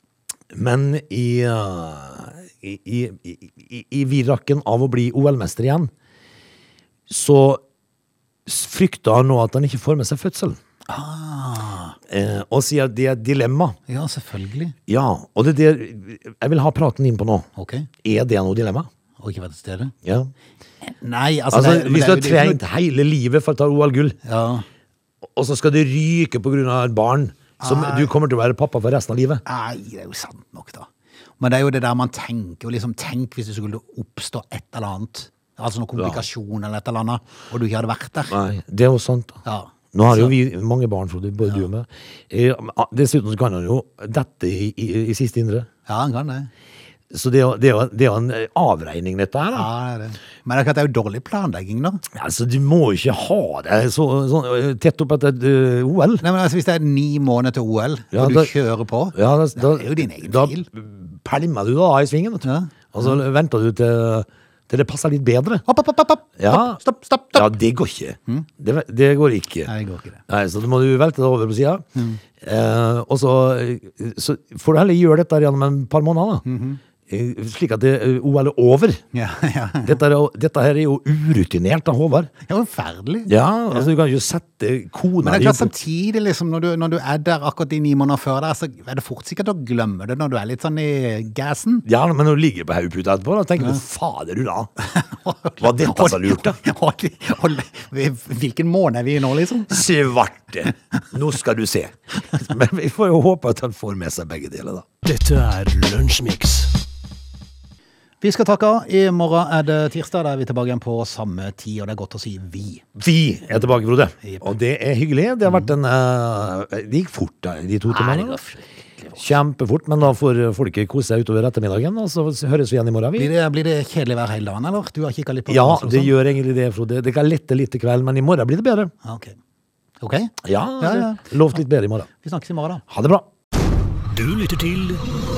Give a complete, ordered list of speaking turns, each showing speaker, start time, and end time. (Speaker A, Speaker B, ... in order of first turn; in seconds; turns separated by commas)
Speaker A: 0.5-5.9, Speaker A: 7.1-7.6, Speaker A: 8.5-10.6, Speaker B: 10.9-12.0, Speaker A: 12.1-13.8, Speaker B: 13.9-14.8, Speaker A: 14.9-17.5, Speaker B: 17.6-17.9, Speaker A: 18.0-18.9, Speaker B: 19.2-19.9, Speaker A: 20.0-20.3, Speaker B: 20.8-22.6, Speaker A: 21.5-24.2, Speaker B: 24.2-24.7, Speaker A: 25.2-29.4, Speaker B: 27.6-28.1, Speaker B: 29.4-30.9, Speaker B: 31.4-38.4, Speaker A: 36.0-36.2, Speaker A: 38.3-39.4, Speaker B: 39.5-40.4, Speaker A: 39.9-45.7, Speaker B: 45.9-46.5, Speaker A: 47.1-49.7, Speaker B: 49.5-52.0, Speaker A: 52.1-56.2, Speaker B: 56.2-60.7, Speaker A: 58.1-58.5, Speaker A: 59.1-65.6, Speaker B: 62.5-63.2, Speaker B: 65.7-67.5, Speaker A: 66.4-66.8, Speaker A: 67.3-69.7, Speaker B: 69.7-70.2, Speaker A: 70.3-71.8, Speaker A: 72.4-76.4, Speaker B: 76.5-76.8, Speaker A: 77.1-79.0, Speaker B: 79.1-80.0, Speaker A: 79.8-82.3, Speaker B: 82.5-83.9, Speaker A: 83.3-85.7, Speaker B: 85.2-91.9, Speaker A: 91.9-94.7, Speaker B: 94.9-99.8, Speaker A: 95.6-96.6, Speaker A: 99.7-104.8, Speaker C: 105.0-106.7, Speaker B: 108.2-112.8, Speaker A: 113.0-118.4, Speaker B: 114.2-114.5, Speaker B: 118.0-118.6, Speaker A: 119.2-123.3, Speaker B: 123.2-126.2, Speaker A: 125.5-128.9, Speaker B: 129.0-129.4, Speaker B: 130.0-131.3, Speaker A: 130.4-132.1, Speaker B: 132.2-132.8, Speaker A: 132.9-133.3, Speaker C: 134.1-135.0